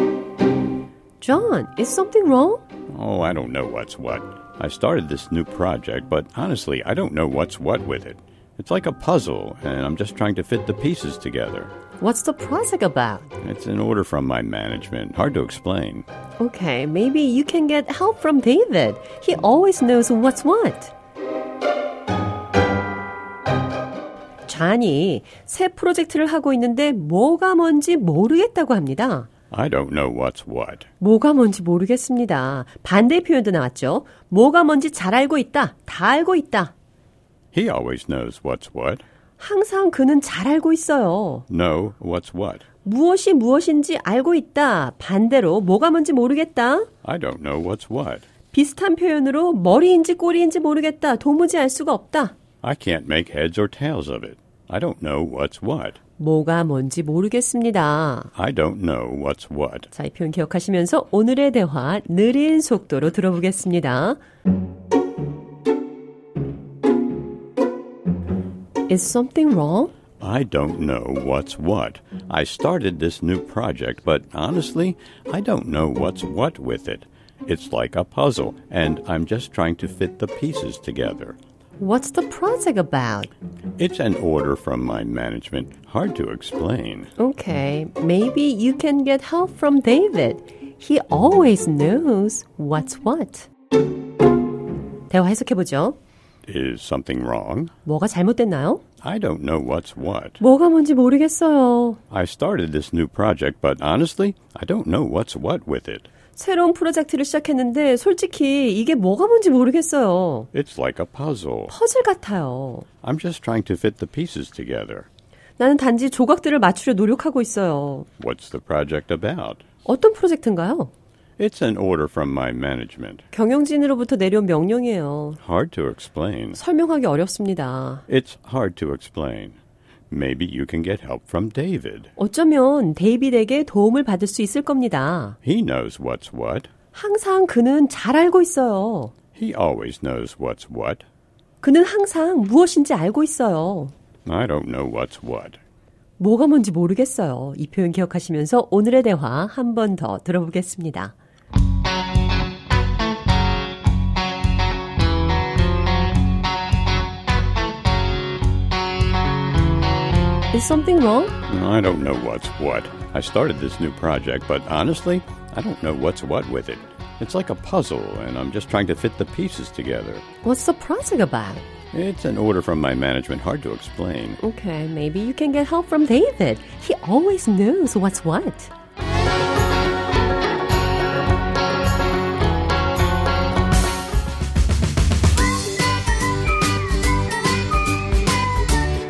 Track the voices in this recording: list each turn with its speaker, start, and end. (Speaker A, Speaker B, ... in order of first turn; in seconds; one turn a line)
Speaker A: 1.2-2.6
Speaker B: 2.9-11.7
Speaker A: 12.0-13.3
Speaker B: 13.4-16.1
Speaker A: 16.4-20.9
Speaker A: 24.5-29.3
Speaker B: 29.5-30.9
Speaker A: 31.0-36.7
Speaker B: 37.5-39.0
Speaker A: 39.4-41.5
Speaker B: 41.5-42.6
Speaker A: 42.8-46.9
Speaker B: 47.0-48.3
Speaker A: 48.5-52.4
Speaker B: 52.6-56.0
Speaker A: 56.2-58.3
Speaker B: 58.4-59.9
Speaker A: 59.9-64.2
Speaker A: 68.9-69.9
Speaker B: 70.2-81.4
Speaker A: 81.8-83.3
Speaker B: 83.8-87.1
Speaker A: 87.2-93.5
Speaker A: 95.1-96.0
Speaker B: 96.5-97.7
Speaker A: 97.9-98.8
Speaker B: 99.0-100.4
Speaker A: 100.4-102.0
Speaker B: 102.1-106.1
Speaker A: 106.4-110.5
Speaker B: 110.5-111.7
Speaker A: 111.7-112.9
Speaker B: 113.0-115.1
Speaker A: 115.6-118.1
Speaker B: 118.2-119.6
Speaker A: 119.9-120.9
Speaker B: 121.4-123.2
Speaker A: 123.3-125.4
Speaker B: 125.4-126.6
Speaker A: 126.5-128.0
Speaker B: 128.1-129.6
Speaker B: 130.1-132.1
Speaker A: 132.2-135.4
Speaker B: 135.4-136.7
Speaker A: 136.9-139.1
Speaker B: 139.3-141.0
Speaker A: 141.6-143.9
Speaker B: 144.3-145.6
Speaker A: 146.2-151.1
Speaker A: 160.5-161.4
Speaker B: 161.5-170.2
Speaker A: 170.4-171.7
Speaker B: 171.9-174.4
Speaker A: 174.4-178.7